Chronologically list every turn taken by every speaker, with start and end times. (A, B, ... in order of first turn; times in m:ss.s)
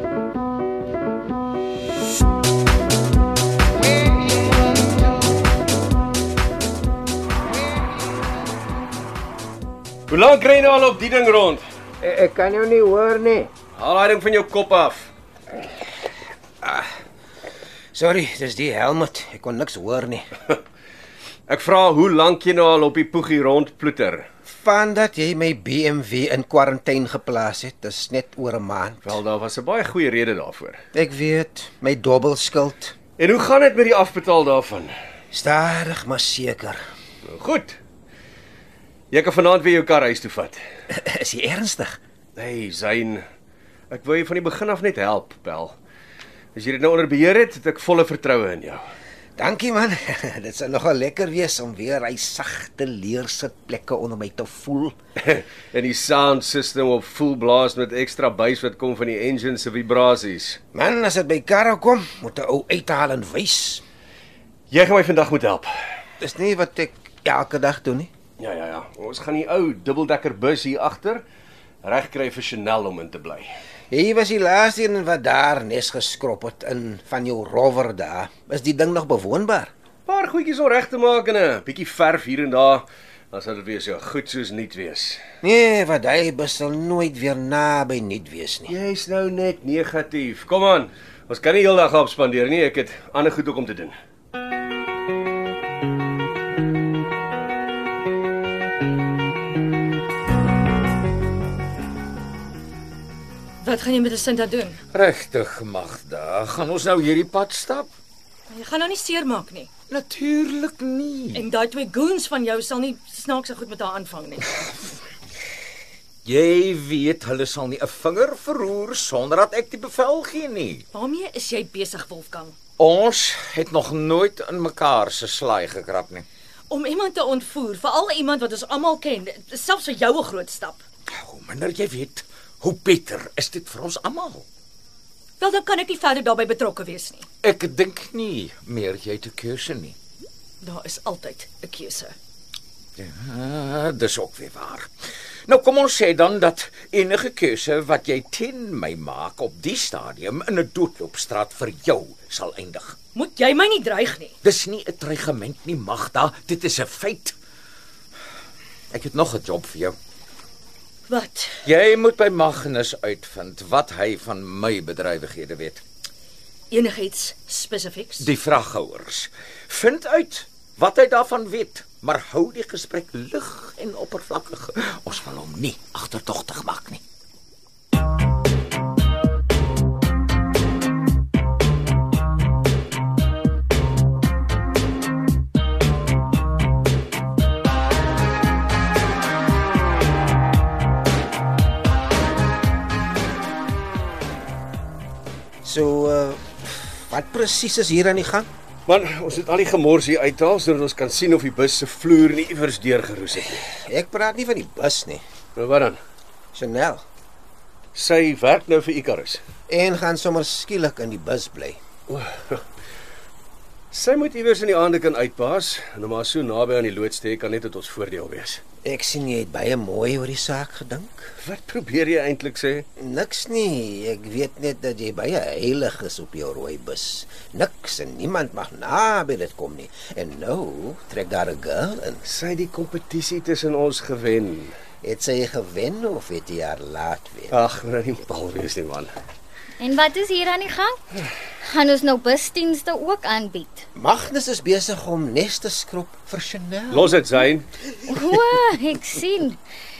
0:10.1-0:11.6 A
0:12.0-0:13.5 B
0:13.8-0:15.1 A
0:16.6-0:16.9 B
0:17.9-0:20.3 B
0:21.5-0:24.3 A
0:24.5-0:29.2 B
0:29.0-0:30.8 A
0:30.9-0:33.0 B
0:33.2-0:34.9 A
0:35.3-0:36.8 B
0:37.2-0:37.8 A
0:39.1-0:40.6 A
0:40.9-0:42.0 B
0:42.4-0:43.2 A
0:43.9-0:45.8 A
0:46.6-0:48.8 A
0:49.4-0:55.0 B
0:55.2-1:00.6 A
1:00.7-1:03.8 B
1:04.7-1:05.7 A
1:06.2-1:08.1 B
1:08.4-1:11.2 A
1:11.8-1:13.5 A
1:13.9-1:19.7 B
1:20.1-1:25.2 A
1:25.4-1:28.8 B
1:28.7-1:33.9 A
1:43.6-1:44.8 C
1:44.9-1:47.9 D
1:48.5-1:49.7 C
1:49.9-1:51.4 D
1:51.3-1:54.9 C
1:56.2-2:00.8 D
2:00.9-2:02.6 C
2:02.8-2:06.2 D
2:06.7-2:10.8 C
2:11.1-2:14.4 D
2:15.4-2:17.2 C
2:17.4-2:20.0 D
2:20.6-2:22.1 C
2:23.0-2:24.9 D
2:25.5-2:33.0 D
2:33.2-2:34.4 C
2:34.4-2:37.4 D
2:38.9-2:39.9 D
2:41.1-2:41.6 C
2:41.7-2:45.8 D
2:46.7-2:48.3 C
2:48.2-2:57.0 D
3:15.6-3:18.5 B
3:18.9-3:23.7 A
3:23.7-3:25.2 B
3:25.6-3:26.0 A
3:26.6-3:27.0 B
3:28.0-3:29.4 A
3:29.7-3:31.8 B
3:32.1-3:32.6 A
3:33.9-3:38.6 A
3:38.8-3:41.3 B
3:41.4-3:42.8 A
3:43.0-3:52.2 B
3:52.2-3:54.8 A
3:55.0-3:57.6 B
3:57.5-3:59.1 A
3:59.8-4:01.0 E
4:01.6-4:03.9 E
4:04.0-4:07.1 B
4:06.9-4:07.7 A
4:08.1-4:09.6 E